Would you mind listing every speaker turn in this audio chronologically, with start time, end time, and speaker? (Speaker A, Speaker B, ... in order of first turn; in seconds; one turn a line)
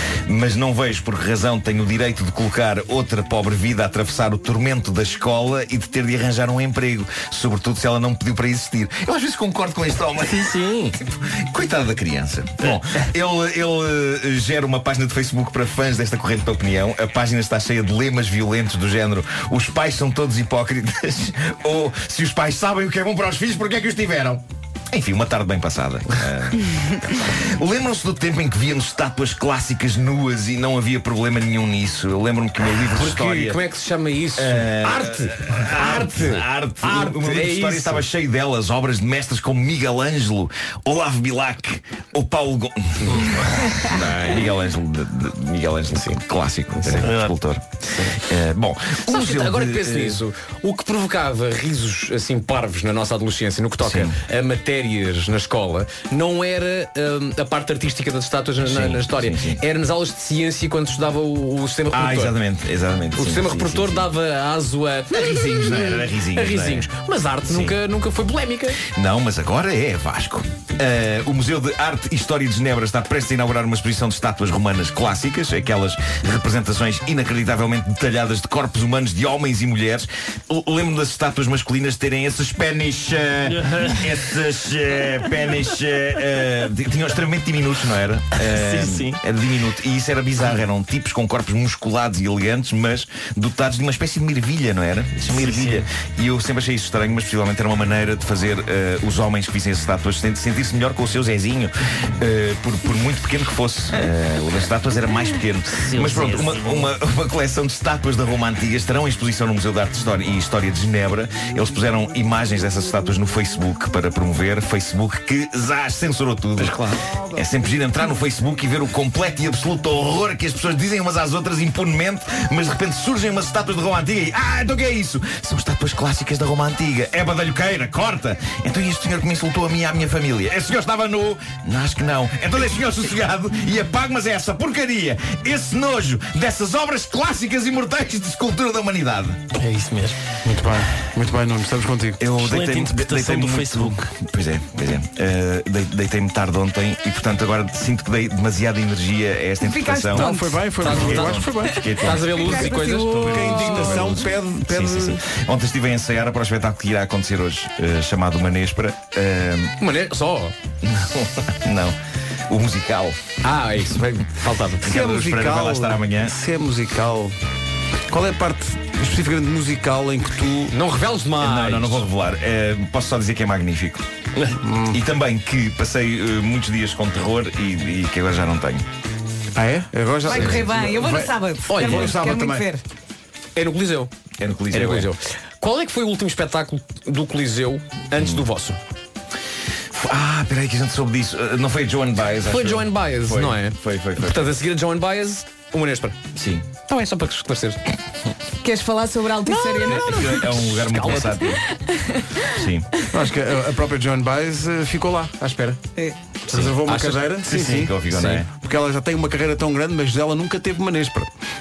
Speaker A: 0.3-33.6
Speaker B: 10.3-10.9
Speaker C: 32.9-38.1
Speaker A: 34.4-50.2
Speaker C: 43.9-44.3
Speaker B: 46.9-47.3
Speaker C: 49.0-62.3
Speaker A: 53.8-54.2
Speaker A: 58.6-59.6
Speaker A: 61.9-64.1
Speaker C: 63.2-68.8
Speaker A: 65.1-66.9
Speaker A: 67.5-67.8
Speaker A: 68.9-139.4
Speaker B: 83.5-84.2
Speaker B: 88.4-89.2
Speaker B: 95.3-95.9
Speaker B: 105.7-106.9
Speaker B: 116.6-117.0
Speaker B: 139.6-140.2
Speaker D: 140.4-142.2
Speaker A: 142.2-150.3
Speaker B: 142.4-144.1
Speaker E: 149.6-150.7
Speaker D: 150.1-151.9
Speaker C: 150.8-151.5
Speaker A: 150.8-152.7
Speaker E: 151.6-154.0
Speaker C: 152.0-154.2
Speaker D: 153.1-155.2
Speaker A: 153.2-159.7
Speaker C: 159.8-160.5
Speaker A: 160.8-161.9
Speaker A: 162.5-163.2
Speaker C: 163.4-165.0
Speaker D: 164.8-167.3
Speaker A: 164.8-166.3
Speaker D: 168.1-170.7
Speaker C: 170.7-172.0
Speaker A: 171.4-174.1
Speaker D: 174.6-175.1
Speaker A: 174.9-178.8
Speaker D: 179.6-182.7
Speaker E: 180.3-182.8
Speaker C: 181.7-182.2
Speaker C: 183.6-184.1
Speaker A: 184.4-185.1
Speaker C: 184.7-188.8
Speaker A: 188.2-188.4
Speaker A: 189.9-194.6
Speaker C: 192.4-196.2
Speaker A: 196.3-196.7
Speaker C: 196.9-197.8
Speaker E: 198.6-200.4
Speaker C: 199.5-201.6
Speaker A: 199.9-201.6
Speaker E: 201.9-202.2
Speaker A: 202.5-202.9
Speaker D: 203.1-205.8
Speaker D: 206.5-208.0
Speaker C: 206.5-208.4
Speaker A: 207.5-208.5
Speaker D: 208.5-211.3